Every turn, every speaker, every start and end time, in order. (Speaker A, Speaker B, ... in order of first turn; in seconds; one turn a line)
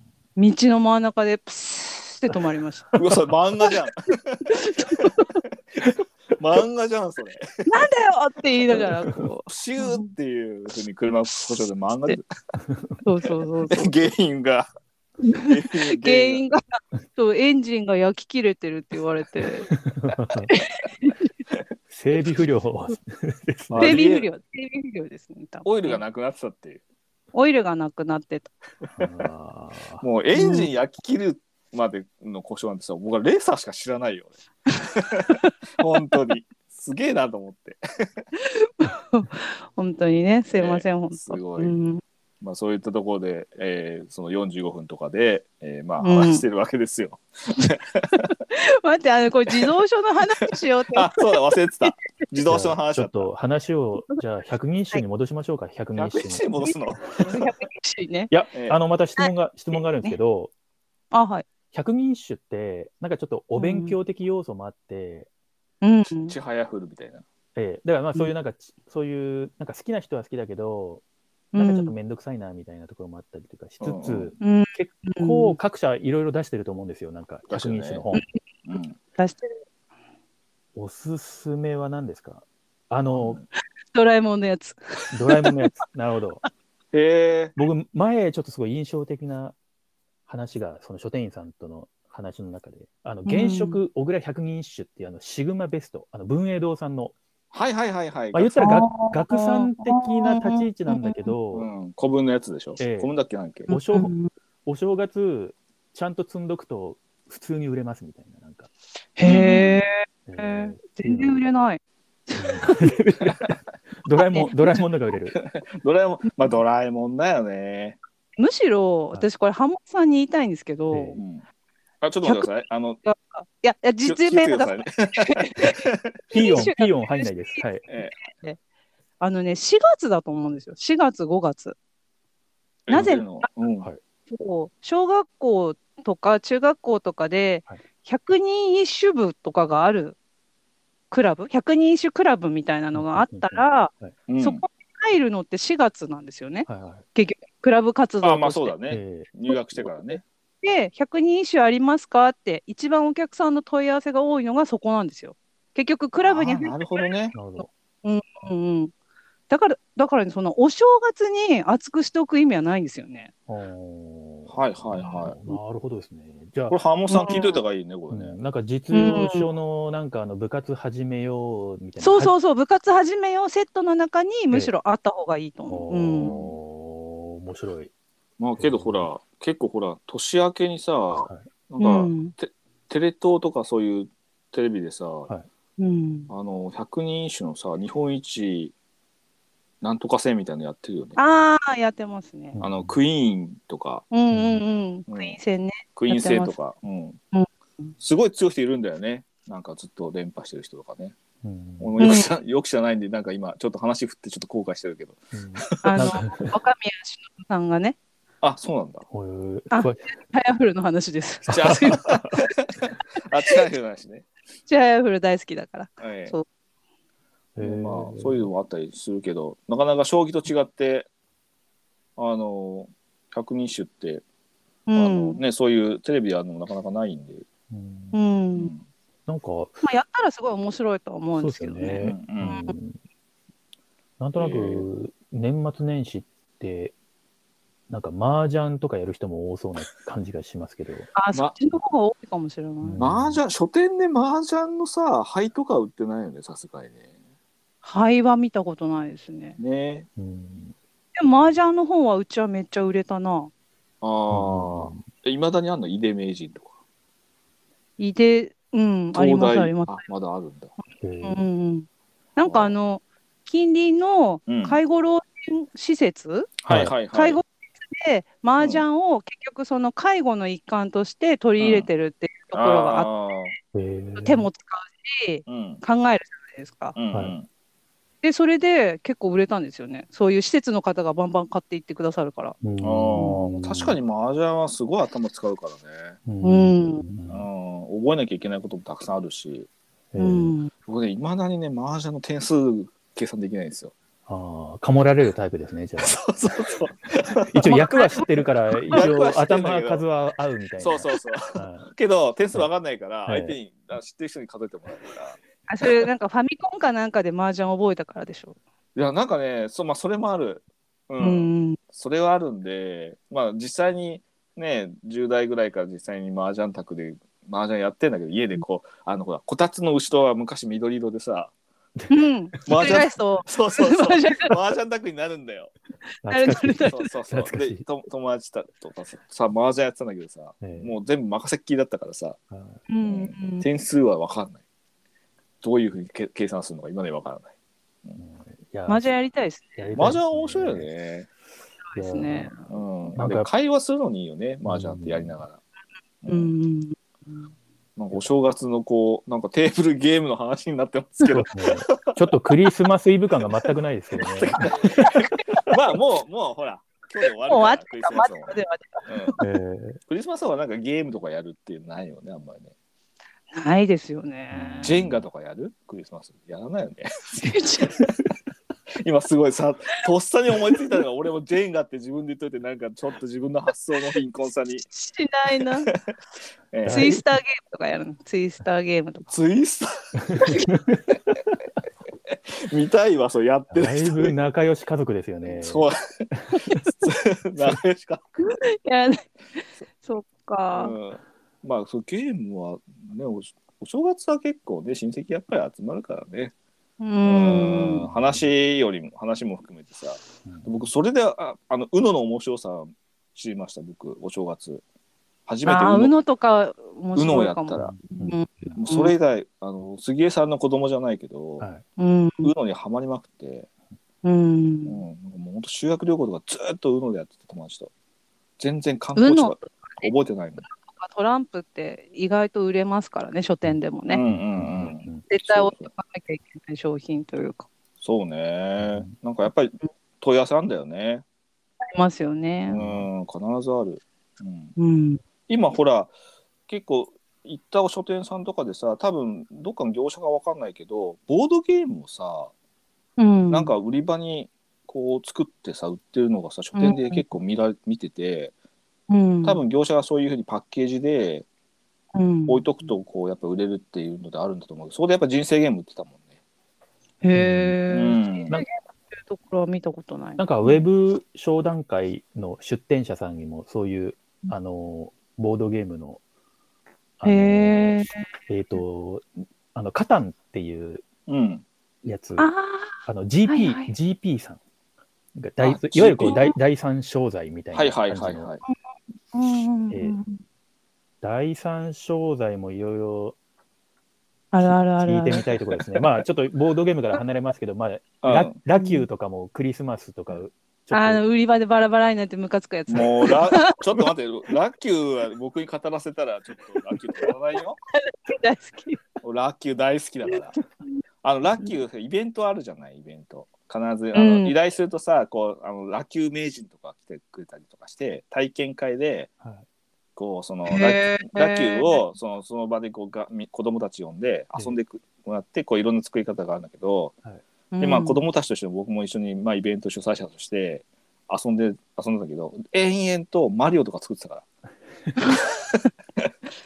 Speaker A: 0.4-3.0
Speaker B: 3.0-5.1
Speaker A: 4.5-5.4
Speaker B: 5.8-7.9
Speaker A: 7.7-10.1
Speaker B: 8.7-8.9
Speaker B: 9.5-12.3
Speaker A: 13.0-13.9
Speaker B: 13.7-14.7
Speaker A: 15.2-16.6
Speaker B: 15.3-16.4
Speaker A: 17.1-19.7
Speaker C: 19.7-20.5
Speaker A: 20.5-21.2
Speaker C: 21.9-24.0
Speaker B: 23.7-24.3
Speaker A: 23.8-26.0
Speaker B: 25.6-26.8
Speaker A: 27.3-28.5
Speaker C: 28.9-30.1
Speaker B: 30.0-37.8
Speaker A: 30.4-30.7
Speaker A: 38.4-42.0
Speaker B: 40.5-41.7
Speaker B: 42.4-48.3
Speaker A: 46.0-46.4
Speaker A: 48.5-51.1
Speaker B: 50.9-53.3
Speaker C: 52.5-56.7
Speaker B: 56.0-57.4
Speaker A: 56.6-58.3
Speaker C: 58.3-60.5
Speaker A: 61.1-61.5
Speaker C: 61.7-65.3
Speaker A: 63.5-64.0
Speaker A: 65.8-66.3
Speaker B: 66.3-67.2
Speaker C: 67.5-71.0
Speaker A: 71.5-71.9
Speaker C: 71.5-78.2
Speaker B: 73.8-74.3
Speaker A: 74.4-75.6
Speaker B: 77.5-78.0
Speaker B: 78.7-79.0
Speaker A: 79.2-79.6
Speaker C: 80.8-83.4
Speaker B: 83.1-83.4
Speaker A: 83.9-85.7
Speaker C: 85.1-86.4
Speaker B: 86.9-87.5
Speaker C: 87.6-89.6
Speaker C: 90.3-97.2
Speaker A: 93.3-93.8
Speaker B: 97.5-98.7
Speaker C: 98.3-101.7
Speaker A: 98.6-101.3
Speaker B: 101.5-103.7
Speaker C: 102.8-103.2
Speaker C: 103.7-104.2
Speaker A: 103.7-104.3
Speaker C: 104.7-108.7
Speaker A: 109.2-112.7
Speaker C: 109.2-109.6
Speaker B: 109.2-109.7
Speaker C: 110.3-111.4
Speaker C: 112.4-115.4
Speaker A: 114.2-114.5
Speaker B: 115.3-118.0
Speaker A: 118.4-121.2
Speaker C: 120.9-121.2
Speaker B: 121.2-121.4
Speaker B: 122.0-123.0
Speaker A: 123.0-125.8
Speaker B: 124.0-126.4
Speaker A: 126.3-128.6
Speaker C: 126.3-127.8
Speaker B: 127.9-128.1
Speaker A: 129.2-131.8
Speaker B: 132.9-133.9
Speaker A: 132.9-133.5
Speaker A: 134.3-140.2
Speaker A: 141.1-148.8
Speaker C: 142.9-144.1
Speaker B: 144.3-144.6
Speaker C: 146.7-147.0
Speaker B: 148.2-150.2
Speaker C: 148.9-150.2
Speaker A: 150.6-158.9
Speaker B: 156.2-157.3
Speaker C: 157.3-157.7
Speaker A: 159.5-163.3
Speaker C: 163.5-166.8
Speaker B: 164.5-165.4
Speaker B: 166.7-168.4
Speaker A: 167.1-167.6
Speaker C: 168.1-172.3
Speaker A: 168.9-169.5
Speaker A: 172.0-176.3
Speaker C: 175.7-177.9
Speaker B: 176.2-176.6
Speaker B: 178.4-185.3
Speaker C: 178.6-179.1
Speaker C: 181.2-181.4
Speaker A: 181.8-182.3
Speaker A: 185.8-186.3
Speaker B: 186.3-188.7
Speaker B: 189.8-191.2
Speaker A: 191.2-192.6
Speaker C: 192.5-193.0
Speaker B: 192.6-194.1
Speaker A: 194.1-196.6
Speaker C: 194.3-194.6
Speaker B: 195.1-195.4
Speaker B: 195.9-197.2
Speaker A: 197.3-197.9
Speaker B: 198.0-201.2
Speaker C: 201.4-202.0
Speaker B: 201.8-205.2
Speaker A: 202.0-202.3
Speaker C: 205.3-206.5
Speaker A: 205.8-208.0
Speaker B: 208.4-209.1
Speaker C: 209.1-210.0
Speaker A: 209.7-212.1
Speaker B: 211.5-214.3
Speaker C: 211.5-212.2
Speaker A: 214.7-216.4
Speaker B: 216.0-216.3
Speaker C: 217.6-218.5
Speaker B: 217.6-221.1
Speaker B: 222.2-224.2
Speaker A: 224.9-225.4
Speaker B: 225.0-227.5
Speaker C: 227.7-228.2
Speaker A: 228.1-228.7
Speaker B: 228.6-228.8
Speaker C: 229.3-229.8
Speaker A: 229.8-232.7
Speaker C: 231.4-233.0
Speaker B: 232.0-232.6
Speaker C: 234.2-236.9
Speaker B: 234.4-234.9
Speaker C: 237.9-241.1
Speaker A: 241.1-243.0
Speaker C: 242.8-243.4
Speaker B: 243.0-247.0
Speaker A: 247.8-249.6
Speaker B: 249.6-250.1
Speaker C: 250.2-250.7
Speaker A: 251.2-253.5
Speaker B: 254.0-256.7
Speaker C: 254.3-255.0
Speaker A: 258.0-260.0
Speaker B: 259.1-260.7
Speaker C: 261.0-261.4
Speaker A: 261.2-273.1
Speaker B: 262.4-262.8
Speaker B: 264.5-264.8
Speaker B: 266.6-267.4
Speaker B: 268.6-268.9
Speaker B: 271.6-271.9
Speaker B: 272.5-273.6
Speaker C: 273.7-274.5
Speaker A: 274.2-277.0
Speaker B: 275.5-275.8
Speaker B: 277.0-277.5
Speaker A: 278.2-282.6
Speaker C: 282.6-284.0
Speaker B: 282.8-286.2
Speaker A: 283.1-283.4
Speaker C: 286.3-287.5
Speaker A: 286.4-287.0
Speaker B: 287.3-289.7
Speaker C: 290.1-290.5
Speaker A: 290.2-290.7
Speaker B: 290.9-293.9
Speaker C: 294.3-296.2
Speaker B: 296.0-297.8
Speaker C: 297.4-301.9
Speaker A: 297.6-298.2
Speaker B: 298.9-300.0
Speaker B: 300.8-306.0
Speaker C: 303.3-303.6
Speaker A: 305.7-308.6
Speaker B: 308.9-321.5
Speaker A: 311.2-311.8
Speaker A: 322.1-324.6
Speaker B: 322.7-325.7
Speaker C: 326.2-327.8
Speaker A: 326.3-327.1
Speaker B: 326.9-332.4
Speaker C: 330.6-330.9
Speaker C: 332.5-332.8
Speaker A: 332.9-333.7
Speaker B: 333.0-334.6
Speaker B: 335.6-337.5
Speaker C: 338.2-339.2
Speaker A: 338.9-339.9
Speaker C: 339.8-340.9
Speaker B: 340.0-341.3
Speaker A: 341.9-342.7
Speaker C: 342.0-342.6
Speaker B: 342.7-345.6
Speaker C: 343.1-343.5
Speaker C: 344.6-345.4
Speaker B: 346.2-346.5
Speaker A: 346.3-347.5
Speaker B: 348.0-352.2
Speaker C: 351.3-355.1
Speaker B: 354.2-359.4
Speaker A: 354.6-355.6
Speaker A: 357.5-359.4
Speaker C: 359.4-360.0
Speaker B: 360.1-362.7
Speaker A: 363.5-364.9
Speaker C: 364.5-365.2
Speaker B: 364.8-367.4
Speaker A: 367.4-368.1
Speaker B: 369.0-374.9
Speaker A: 374.9-375.9
Speaker B: 376.7-377.2
Speaker C: 376.8-377.2
Speaker A: 376.9-379.3
Speaker B: 379.3-381.1
Speaker C: 380.2-381.1
Speaker B: 382.3-384.3
Speaker C: 383.7-386.9
Speaker B: 385.4-386.2
Speaker B: 387.0-388.2
Speaker A: 388.4-391.0
Speaker B: 390.7-396.5
Speaker A: 397.0-398.1
Speaker B: 397.2-404.8
Speaker C: 400.4-400.9
Speaker B: 405.5-406.1
Speaker A: 405.6-409.1
Speaker B: 407.2-407.9
Speaker C: 407.7-408.8
Speaker B: 408.8-411.6
Speaker A: 412.0-412.5
Speaker B: 412.4-413.7
Speaker A: 414.2-415.0
Speaker B: 414.9-417.9
Speaker B: 418.6-420.6
Speaker A: 419.2-420.1
Speaker A: 420.7-424.2
Speaker C: 423.6-425.3
Speaker B: 424.1-425.9
Speaker A: 425.3-427.7
Speaker B: 428.0-431.2
Speaker C: 428.8-429.1
Speaker A: 431.9-432.8
Speaker B: 432.7-434.7
Speaker C: 432.7-433.1
Speaker A: 434.8-435.2
Speaker B: 435.5-436.1
Speaker B: 436.7-442.5
Speaker A: 443.2-443.7
Speaker B: 443.5-448.5
Speaker A: 446.8-447.2
Speaker A: 449.1-449.6
Speaker B: 449.4-451.5
Speaker A: 452.1-452.6
Speaker B: 452.5-456.3
Speaker A: 457.2-460.4
Speaker C: 457.3-457.8
Speaker B: 457.9-458.6
Speaker C: 460.4-466.2
Speaker C: 467.2-471.1
Speaker A: 467.2-468.3
Speaker B: 471.3-471.6
Speaker C: 472.0-472.5
Speaker A: 472.4-473.9
Speaker C: 473.1-474.6
Speaker C: 475.4-478.5
Speaker B: 475.6-476.4
Speaker A: 476.3-476.6
Speaker B: 477.7-478.6
Speaker A: 479.3-480.4
Speaker C: 479.9-480.2
Speaker C: 481.2-483.4
Speaker A: 484.5-485.4
Speaker C: 485.0-491.2
Speaker B: 485.4-486.2
Speaker B: 488.2-488.5
Speaker A: 488.8-489.1
Speaker A: 490.9-493.5
Speaker B: 492.9-497.8
Speaker A: 497.9-499.0
Speaker B: 499.2-500.6
Speaker B: 501.2-509.3
Speaker A: 504.1-504.5
Speaker B: 510.2-517.1
Speaker A: 510.7-512.0
Speaker A: 517.7-518.2
Speaker B: 517.8-524.5
Speaker A: 525.2-525.5